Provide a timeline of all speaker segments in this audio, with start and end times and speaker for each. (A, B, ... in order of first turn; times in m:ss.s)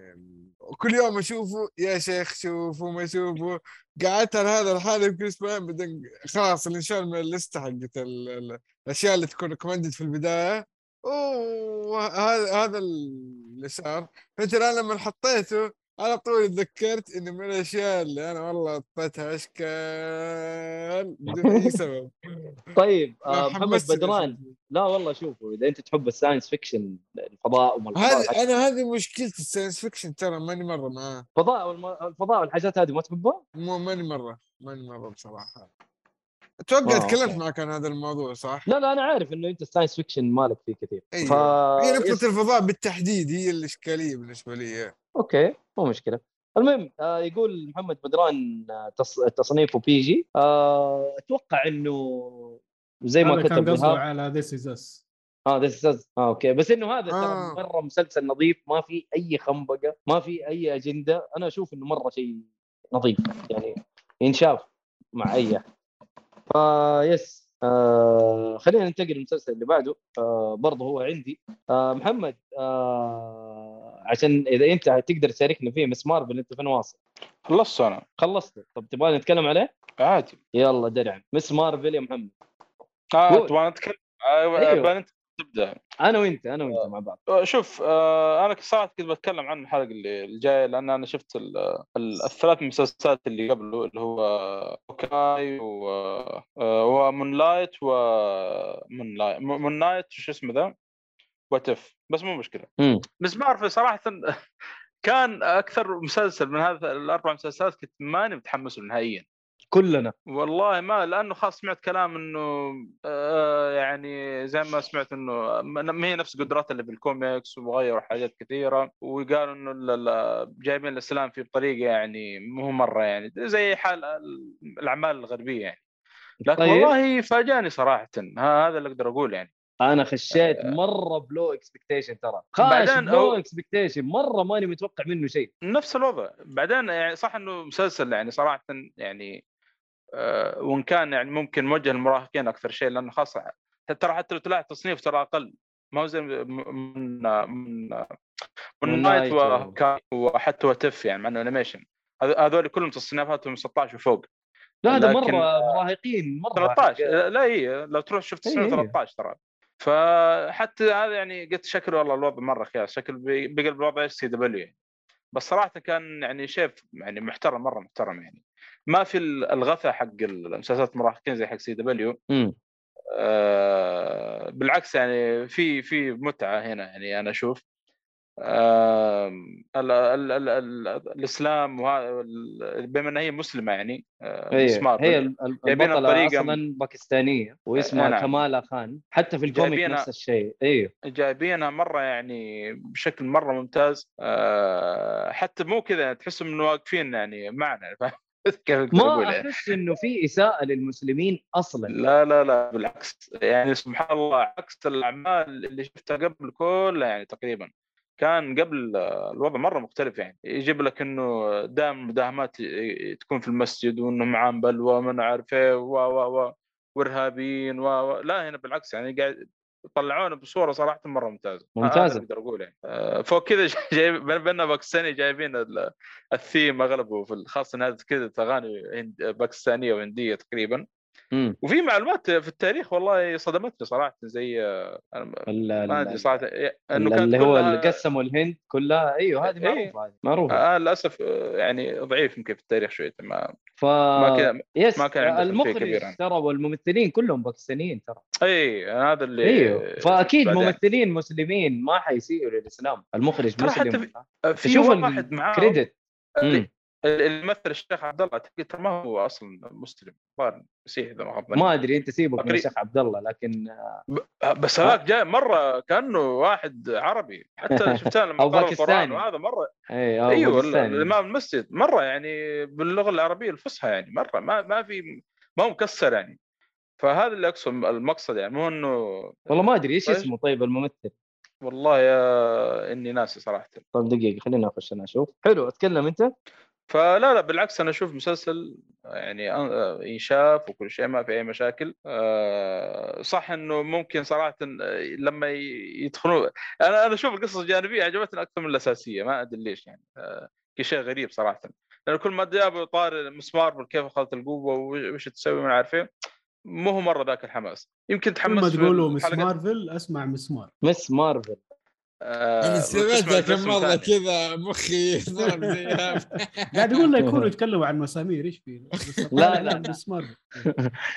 0:00.7-0:22.1 A
0:21.3-0:21.8 B
0:22.8-0:28.4 B
0:23.3-0:24.6 A
0:28.0-0:31.3 A
0:31.4-0:33.4 B
0:33.6-0:35.7 A
0:36.6-0:38.7 A
0:36.8-0:37.4 B
0:38.7-0:42.2 B
0:41.1-0:44.9 A
0:45.2-0:54.0 B
0:53.2-0:55.0 C
0:55.5-1:05.6 B
0:57.1-0:57.6 A
1:06.5-1:17.0 B
1:17.5-1:18.0 D
1:18.2-1:19.7 B
1:20.0-1:20.4 D
1:20.6-1:22.3 B
1:23.2-1:25.8 D
1:24.6-1:24.9 B
1:26.0-1:27.2 B
1:26.8-1:40.7 D
1:41.5-1:42.7 D
1:43.2-1:44.2 D
1:45.0-1:49.3 D
1:49.7-1:50.1 B
1:50.3-2:05.8 D
2:06.5-2:06.9 B
2:06.5-2:09.5 D
2:09.8-2:15.5 B
2:10.3-2:10.7 D
2:12.6-2:13.4 D
2:15.7-2:19.4 D
2:20.2-2:28.1 D
2:28.8-2:34.3 D
2:28.9-2:29.8 B
2:34.9-2:37.2 B
2:34.9-2:35.7 D
2:36.6-2:44.7 D
2:38.5-2:39.0 B
2:45.3-2:52.2 D
2:53.2-2:57.6 D
2:58.5-3:06.6 D
3:04.6-3:10.9 B
3:07.8-3:08.4 D
3:09.5-3:10.1 D
3:11.1-3:19.8 D
3:19.0-3:22.0 B
3:21.9-3:39.4 D
3:39.9-3:50.8 D
3:41.8-3:42.2 B
3:51.6-3:58.0 D
3:55.5-3:56.4 B
3:57.0-4:00.6 B
3:59.5-3:59.9 D
4:00.5-4:03.5 D
4:03.8-4:08.2 B
4:04.2-4:06.2 D
4:08.4-4:10.8 D
4:09.4-4:14.1 B
4:13.6-4:15.8 D
4:14.6-4:15.9 B
4:16.4-4:21.7 D
4:21.6-4:24.0 B
4:22.4-4:22.7 D
4:24.4-4:29.7 D
4:27.8-4:29.2 B
4:29.9-4:31.1 B
4:30.3-4:35.0 D
4:35.6-4:36.4 D
4:37.0-4:40.3 D
4:39.5-4:41.1 B
4:41.6-4:43.8 D
4:43.9-4:46.3 B
4:46.9-5:06.1 D
5:06.8-5:09.5 D
5:08.5-5:10.7 C
5:10.8-5:11.6 B
5:12.2-5:14.1 D
5:12.6-5:17.0 A
5:15.5-5:20.7 C
5:17.2-5:17.5 B
5:19.1-5:19.7 A
5:19.3-5:19.8 B